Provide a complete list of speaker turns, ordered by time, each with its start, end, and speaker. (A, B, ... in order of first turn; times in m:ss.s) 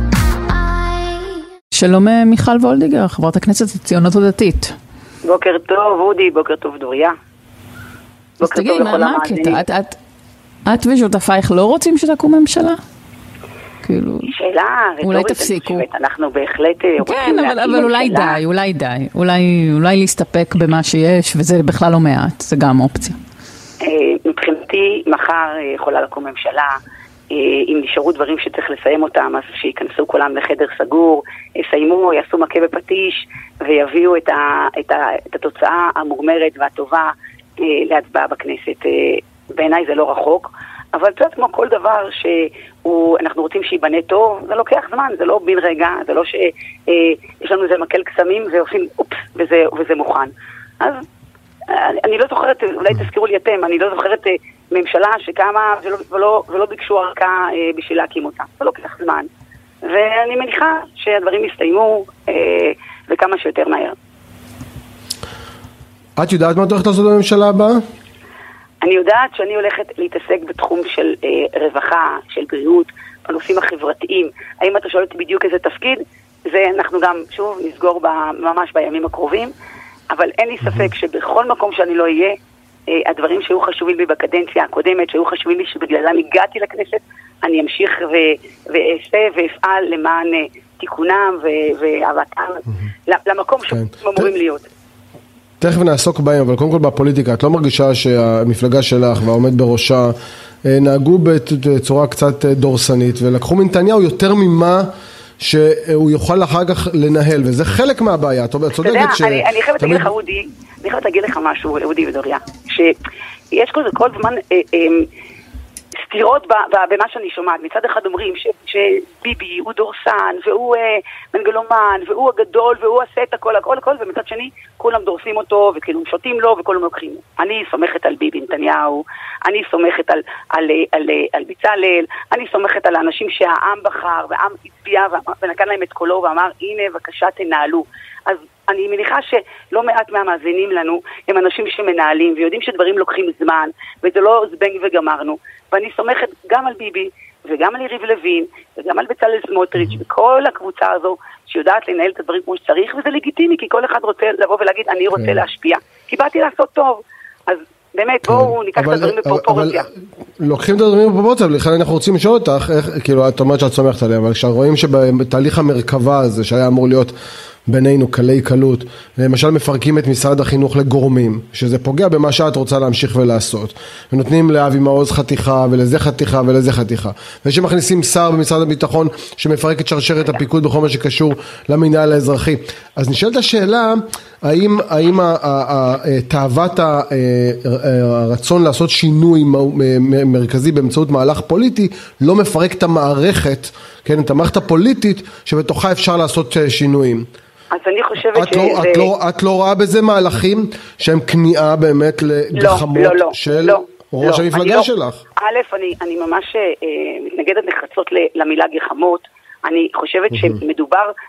0:01.7-0:04.8 A
0:05.2-0:07.2 B
0:08.4-0:09.6 B
0:08.4-0:10.0 A
0:10.6-0:12.8 A
0:13.8-0:14.3 A
0:14.2-0:18.4 B
0:15.0-0:15.8 A
0:17.0-0:23.2 A
0:23.8-0:26.8 B
0:27.3-0:51.0 B
0:51.7-0:59.3 B
0:59.8-1:04.0 B
1:06.2-1:07.8 C
1:08.8-1:19.5 B
1:20.1-1:22.4 B
1:22.9-1:34.7 B
1:33.7-1:34.3 C
1:35.6-1:44.9 C
1:45.4-1:50.1 C
1:48.8-1:52.9 B
1:53.5-1:55.1 B
1:56.0-2:39.9 B
2:38.3-2:39.8 C
2:40.4-2:47.1 C
2:47.7-3:17.3 C
3:17.7-3:19.1 B
3:18.3-3:25.2 C
3:22.5-3:31.1 B